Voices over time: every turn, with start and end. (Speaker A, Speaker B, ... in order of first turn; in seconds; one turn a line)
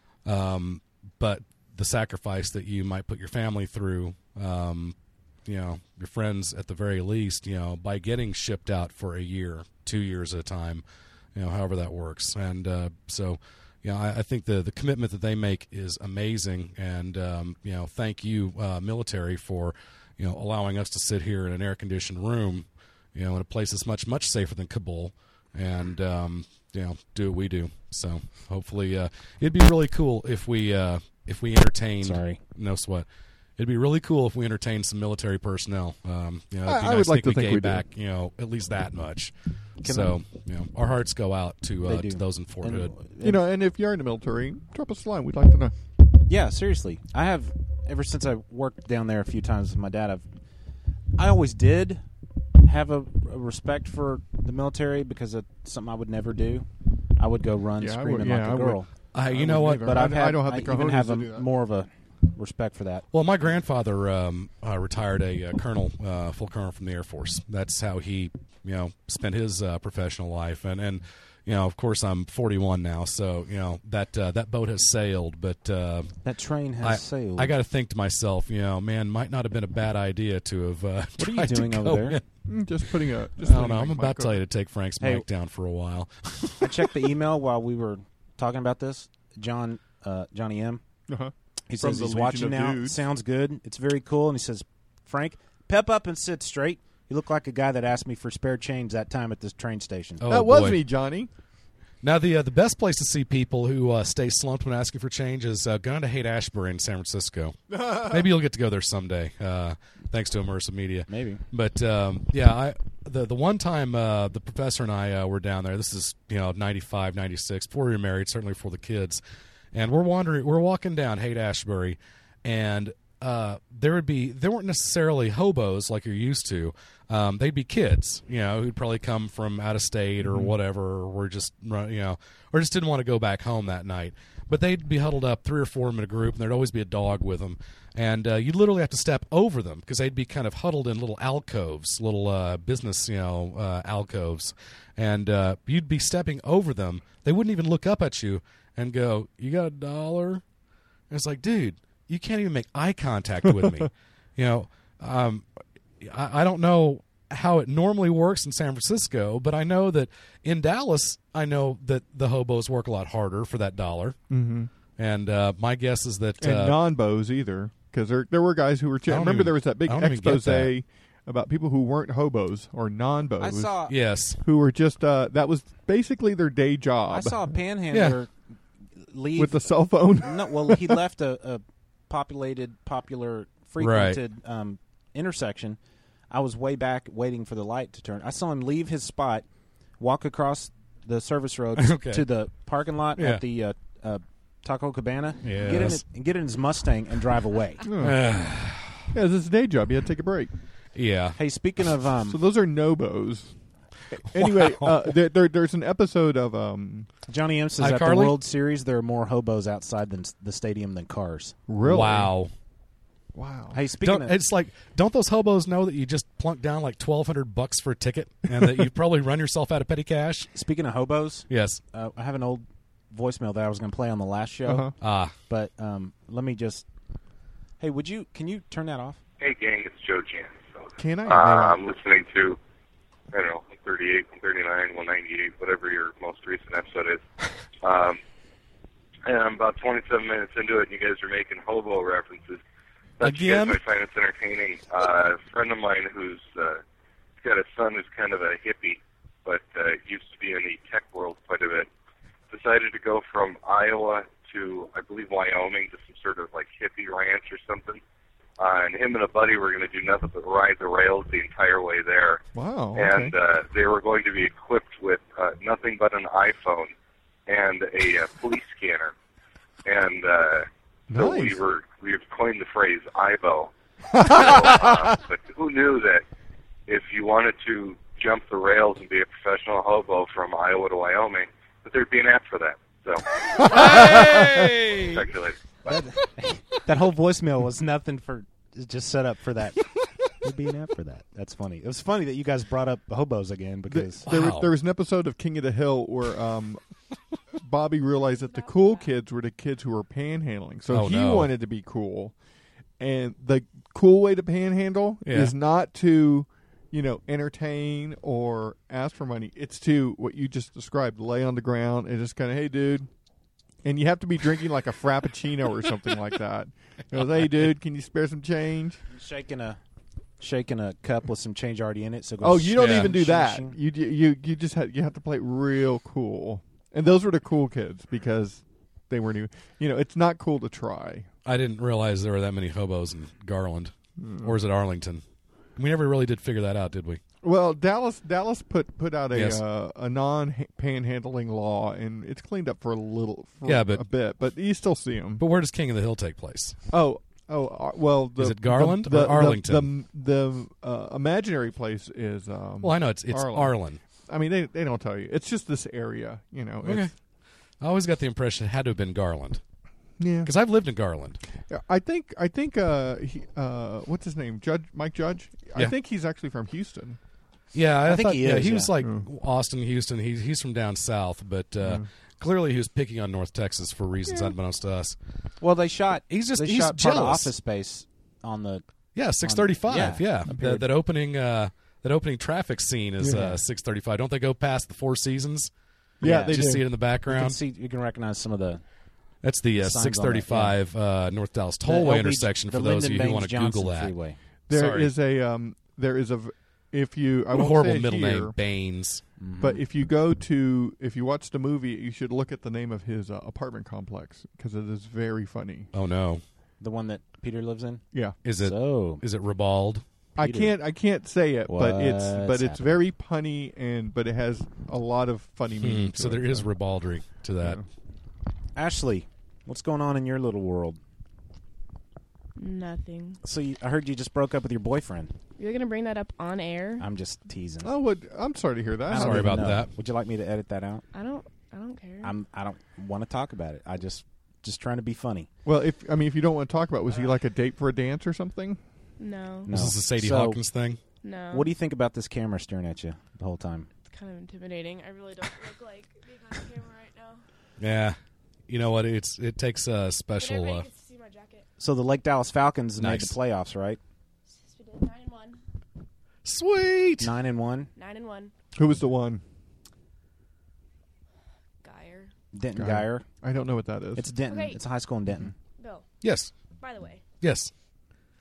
Speaker A: 0.2-5.0
Speaker A: 5.5-10.8
Speaker A: 11.3-33.1
Speaker B: 32.0-32.4
Speaker A: 33.6-42.9
Speaker C: 36.6-37.8
Speaker B: 39.8-40.2
Speaker B: 41.8-43.4
Speaker C: 43.2-45.7
Speaker B: 46.3-50.2
Speaker B: 51.2-52.0
Speaker B: 52.6-58.9
Speaker C: 57.8-61.5
Speaker A: 59.1-60.0
Speaker B: 59.8-63.1
Speaker A: 63.1-76.1
Speaker B: 76.2-77.5
Speaker A: 76.8-82.2
Speaker B: 81.2-82.2
Speaker C: 82.5-84.4
Speaker A: 83.4-86.9
Speaker B: 85.0-85.2
Speaker B: 86.6-90.8
Speaker C: 91.1-93.0
Speaker B: 91.7-100.2
Speaker A: 100.2-100.8
Speaker C: 100.3-101.3
Speaker A: 102.0-119.2
Speaker C: 107.7-108.3
Speaker B: 111.1-111.5
Speaker A: 119.7-150.4
Speaker C: 130.2-130.5
Speaker A: 151.1-155.5
Speaker A: 156.0-164.2
Speaker C: 164.3-164.7
Speaker A: 165.0-166.8
Speaker C: 166.4-173.8
Speaker A: 169.1-170.7
Speaker B: 173.4-173.9
Speaker A: 173.9-174.4
Speaker C: 174.4-177.5
Speaker B: 177.1-178.3
Speaker A: 177.9-178.2
Speaker B: 179.0-179.7
Speaker C: 179.4-181.0
Speaker B: 180.2-185.8
Speaker A: 183.8-184.2
Speaker B: 186.3-189.4
Speaker B: 190.0-197.8
Speaker A: 191.8-192.2
Speaker A: 193.2-193.4
Speaker A: 195.4-196.0
Speaker C: 195.7-196.0
Speaker C: 197.8-198.2
Speaker A: 198.0-199.1
Speaker C: 199.1-200.5
Speaker A: 200.9-201.4
Speaker B: 201.4-202.4
Speaker C: 202.3-203.5
Speaker C: 204.2-207.1
Speaker A: 204.3-205.1
Speaker B: 207.3-211.5
Speaker A: 207.8-208.4
Speaker C: 211.7-212.3
Speaker A: 211.8-212.5
Speaker C: 213.3-213.8
Speaker B: 213.7-214.4
Speaker A: 214.0-220.5
Speaker C: 218.5-218.8
Speaker B: 220.5-224.9
Speaker A: 221.5-221.8
Speaker C: 224.7-224.9
Speaker A: 225.0-225.3
Speaker B: 225.5-226.9
Speaker B: 227.8-229.2
Speaker D: 229.4-232.6
Speaker C: 231.0-231.8
Speaker D: 233.3-237.2
Speaker D: 237.8-238.2
Speaker D: 239.2-242.6
Speaker D: 243.2-246.8
Speaker C: 243.2-243.7
Speaker D: 247.4-251.9
Speaker D: 252.5-258.0
Speaker D: 258.6-262.4
Speaker C: 262.5-263.3
Speaker D: 262.9-266.9
Speaker D: 267.5-269.1
Speaker D: 269.9-276.2
Speaker C: 271.1-271.6
Speaker C: 274.1-275.1
Speaker D: 276.9-283.3
Speaker C: 283.5-284.7
Speaker A: 283.6-285.2
Speaker D: 285.1-285.6
Speaker B: 285.8-289.8
Speaker B: 290.4-294.2
Speaker C: 293.9-296.8
Speaker A: 294.3-294.7
Speaker C: 297.6-302.3
Speaker E: 298.3-299.1
Speaker A: 300.9-301.5
Speaker C: 303.0-313.1
Speaker A: 305.2-305.5
Speaker C: 313.8-319.0
Speaker B: 319.1-319.8
Speaker B: 320.4-323.8
Speaker C: 322.4-331.3
Speaker A: 322.8-323.1
Speaker A: 331.4-335.2
Speaker C: 334.2-334.6
Speaker A: 335.8-337.2
Speaker C: 337.4-345.4
Speaker A: 339.3-339.6
Speaker A: 343.6-344.0
Speaker A: 345.4-346.8
Speaker C: 346.9-357.1
Speaker A: 348.4-349.9
Speaker A: 352.8-354.0
Speaker A: 356.8-357.1
Speaker A: 357.8-359.6
Speaker C: 360.2-360.5
Speaker A: 360.4-361.4
Speaker C: 361.7-367.2
Speaker A: 367.7-375.2
Speaker B: 368.1-368.9
Speaker C: 369.0-369.2
Speaker B: 375.6-378.8
Speaker A: 376.3-377.5
Speaker A: 379.1-385.7
Speaker B: 379.4-380.8
Speaker B: 383.2-383.6
Speaker C: 386.2-386.8
Speaker A: 386.2-387.6
Speaker B: 386.2-388.8
Speaker A: 389.4-394.1
Speaker B: 389.8-390.8
Speaker B: 391.8-394.4
Speaker C: 394.7-398.5
Speaker A: 394.7-395.1
Speaker A: 397.5-399.2
Speaker B: 399.4-399.8
Speaker C: 399.6-405.9
Speaker A: 405.9-406.4
Speaker B: 406.8-409.2
Speaker A: 408.4-410.0
Speaker C: 410.4-416.7
Speaker B: 410.4-410.7
Speaker B: 411.7-413.0
Speaker A: 415.8-417.8
Speaker B: 418.8-421.0
Speaker E: 422.6-423.4
Speaker B: 423.4-425.3
Speaker E: 425.6-427.1
Speaker B: 427.0-427.9
Speaker C: 427.8-429.8
Speaker B: 429.1-431.1
Speaker A: 429.1-429.9
Speaker E: 431.1-432.3
Speaker B: 432.2-435.5
Speaker C: 435.6-438.8
Speaker E: 439.2-439.7
Speaker B: 439.7-440.6
Speaker A: 439.7-441.0
Speaker E: 441.2-441.7
Speaker B: 441.5-443.9
Speaker E: 444.0-447.4
Speaker A: 447.8-448.2
Speaker A: 448.7-450.9
Speaker E: 450.4-451.7
Speaker B: 451.8-454.0
Speaker A: 453.0-453.3
Speaker E: 454.5-455.6
Speaker A: 456.4-457.3
Speaker B: 457.2-457.9
Speaker E: 458.0-458.5
Speaker C: 458.8-459.4
Speaker E: 461.8-462.3
Speaker B: 462.5-463.2
Speaker C: 462.8-464.3
Speaker B: 464.2-465.5
Speaker E: 464.5-464.8
Speaker E: 465.8-466.0
Speaker A: 466.2-466.5
Speaker E: 466.8-467.2
Speaker A: 467.4-467.7